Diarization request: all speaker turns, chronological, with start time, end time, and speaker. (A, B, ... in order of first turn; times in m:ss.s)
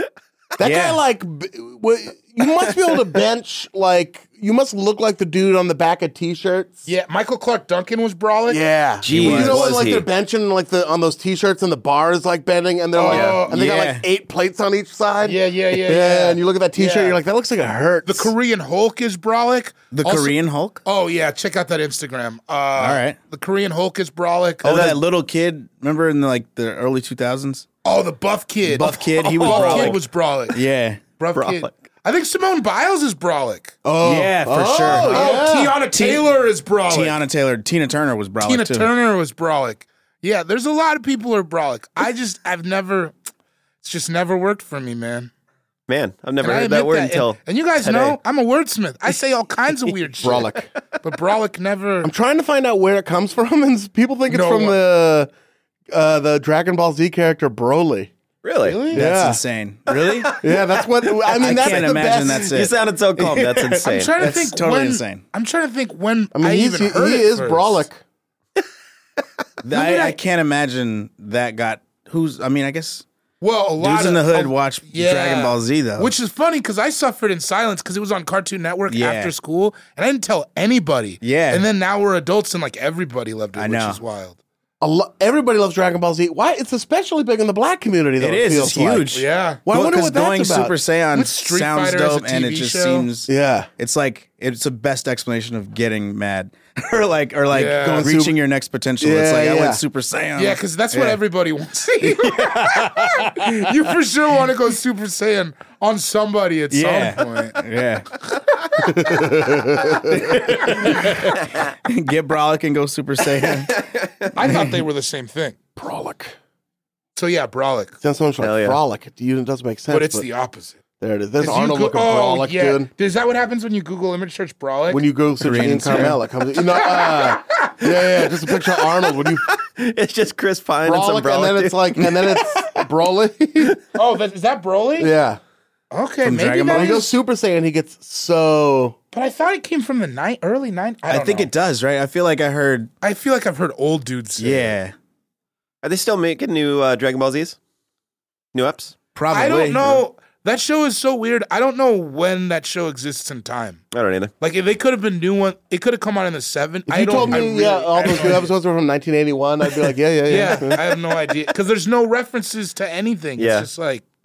0:00.6-0:06.8 A
0:00.6-0:01.0 B
0:06.8-0:08.6 C
0:08.5-0:18.3 A
0:09.0-0:10.1 D
0:09.1-0:09.8 B
0:12.9-0:13.6 C
0:13.1-0:14.0 B
0:15.2-0:17.2 C
0:18.0-0:24.9 C
0:19.9-0:20.8 B
0:22.8-0:23.2 B
0:24.6-0:27.6 B
0:24.7-0:24.9 D
0:27.8-0:30.6 C
0:28.6-0:31.0 B
0:29.5-0:29.9 D
0:31.2-0:33.8 C
0:31.3-0:31.7 D
0:33.8-0:35.8 A
0:34.0-0:36.3 B
0:34.8-0:37.2 C
0:36.9-0:38.9 B
0:38.4-0:43.1 C
0:43.8-0:45.3 C
0:45.9-0:48.2 D
0:46.4-0:52.1 C
0:50.2-0:50.7 A
0:52.0-0:55.3 A
0:54.3-0:54.8 C
0:55.9-0:58.1 A
0:58.4-0:58.8 D
0:58.6-0:59.1 C
0:58.9-0:59.4 A
0:58.9-1:00.4 B
1:00.0-1:00.4 D
1:00.4-1:02.5 A
1:01.3-1:05.2 B
1:01.4-1:04.1 D
1:03.8-1:07.8 C
1:06.3-1:08.0 A
1:09.6-1:13.0 B
1:09.7-1:10.2 C
1:13.4-1:24.4 C
1:13.8-1:16.1 B
1:18.9-1:19.3 B
1:21.2-1:21.6 B
1:23.6-1:24.0 B
1:24.8-1:30.7 A
1:28.2-1:41.2 B
1:29.1-1:29.6 C
1:31.1-1:33.1 C
1:33.3-1:33.7 A
1:37.5-1:38.2 C
1:37.8-1:38.4 A
1:39.0-1:39.8 A
1:40.4-1:47.6 C
1:42.0-1:43.7 B
1:46.7-1:48.1 B
1:48.8-1:50.5 A
1:50.0-1:53.8 B
1:53.7-1:54.3 D
1:54.3-1:55.6 C
1:54.4-1:54.8 B
1:55.8-1:56.3 A
1:57.2-1:58.0 C
1:58.0-2:00.2 A
1:58.4-1:58.8 D
1:59.9-2:00.8 C
2:01.0-2:02.9 A
2:01.4-2:05.0 C
2:04.9-2:09.4 A
2:05.4-2:06.2 B
2:06.6-2:08.1 C
2:09.5-2:12.0 D
2:10.8-2:13.8 A
2:12.0-2:12.4 B
2:13.9-2:15.1 C
2:15.0-2:15.4 A
2:15.9-2:17.1 C
2:16.2-2:17.1 B
2:16.7-2:19.0 A
2:19.1-2:21.5 C
2:21.1-2:22.9 B
2:23.0-2:24.7 C
2:24.4-2:24.9 B
2:25.8-2:27.6 D
2:28.5-2:28.9 D
2:29.1-2:30.0 B
2:29.3-2:33.8 C
2:33.9-2:34.3 D
2:34.4-2:38.5 C
2:36.9-2:40.8 A
2:37.2-2:37.4 B
2:40.2-2:44.0 C
2:43.4-2:43.7 D